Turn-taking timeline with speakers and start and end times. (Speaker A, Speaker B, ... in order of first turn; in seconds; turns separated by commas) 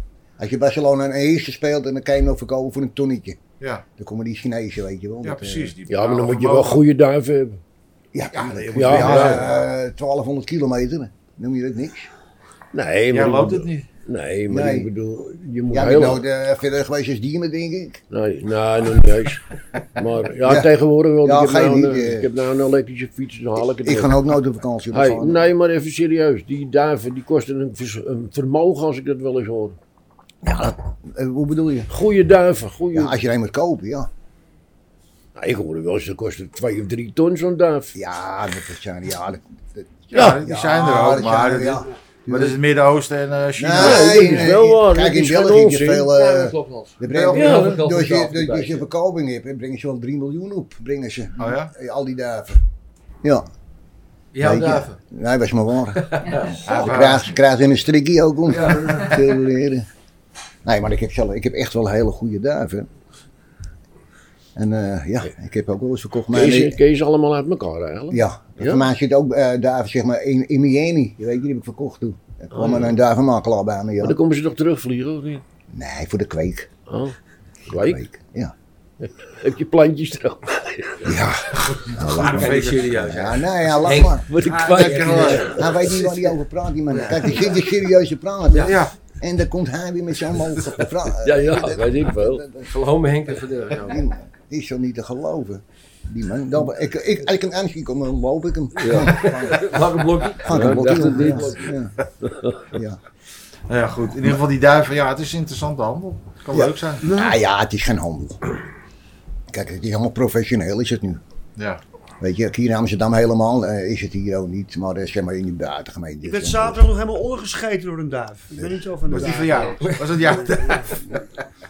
Speaker A: 0.4-3.4, Speaker B: 3.6-3.8, Speaker A: 4.0-5.7, Speaker B: 5.2-6.8, Speaker C: 5.9-7.6, Speaker A: 8.1-12.1, Speaker B: 8.3-9.6, Speaker C: 8.7-9.4, Speaker C: 12.7-16.2, Speaker B: 13.1-13.9, Speaker A: 14.5-14.9, Speaker A: 15.7-18.0, Speaker C: 18.1-24.2, Speaker A: 20.4-22.3, Speaker A: 23.7-25.5, Speaker C: 24.9-29.8, Speaker A: 30.4-31.9, Speaker C: 31.9-33.2, Speaker A: 32.9-34.1, Speaker C: 35.4-37.9, Speaker A: 37.9-42.6, Speaker B: 40.1-44.5, Speaker C: 40.1-40.4, Speaker A: 43.6-52.6, Speaker C: 43.7-46.1, Speaker D: 46.0-48.8, Speaker B: 47.1-47.6, Speaker C: 47.3-47.8, Speaker B: 51.4-51.7, Speaker D: 54.3-55.0, Speaker A: 54.4-59.9, Speaker D: 56.0-56.7, Speaker B: 56.6-57.3, Speaker D: 58.5-59.2, Speaker A: 60.6-62.9, Speaker A: 64.5-66.8, Speaker C: 66.3-68.8, Speaker A: 68.1-74.2, Speaker C: 72.5-72.9, Speaker C: 74.0-75.4, Speaker A: 75.7-76.7, Speaker C: 76.9-77.2, Speaker C: 77.7-78.0, Speaker A: 77.7-78.5, Speaker C: 79.0-81.2, Speaker A: 81.0-84.3, Speaker B: 81.6-83.0, Speaker D: 82.0-86.2, Speaker C: 84.2-85.7, Speaker B: 84.4-85.7, Speaker A: 85.2-92.7, Speaker D: 86.9-87.6, Speaker D: 88.5-88.8, Speaker B: 88.6-88.9, Speaker C: 91.0-92.4, Speaker D: 92.7-94.0, Speaker A: 93.8-99.6, Speaker C: 98.8-99.3, Speaker D: 99.0-101.5, Speaker B: 99.3-99.5, Speaker A: 100.4-101.9, Speaker C: 100.4-102.7, Speaker A: 102.7-103.0, Speaker B: 103.7-107.0, Speaker A: 106.5-108.5, Speaker E: 107.0-107.3, Speaker A: 109.5-111.2, Speaker B: 111.5-111.8, Speaker A: 112.2-116.9, Speaker E: 116.2-121.0, Speaker A: 118.5-119.4, Speaker B: 119.1-120.8, Speaker D: 119.8-121.0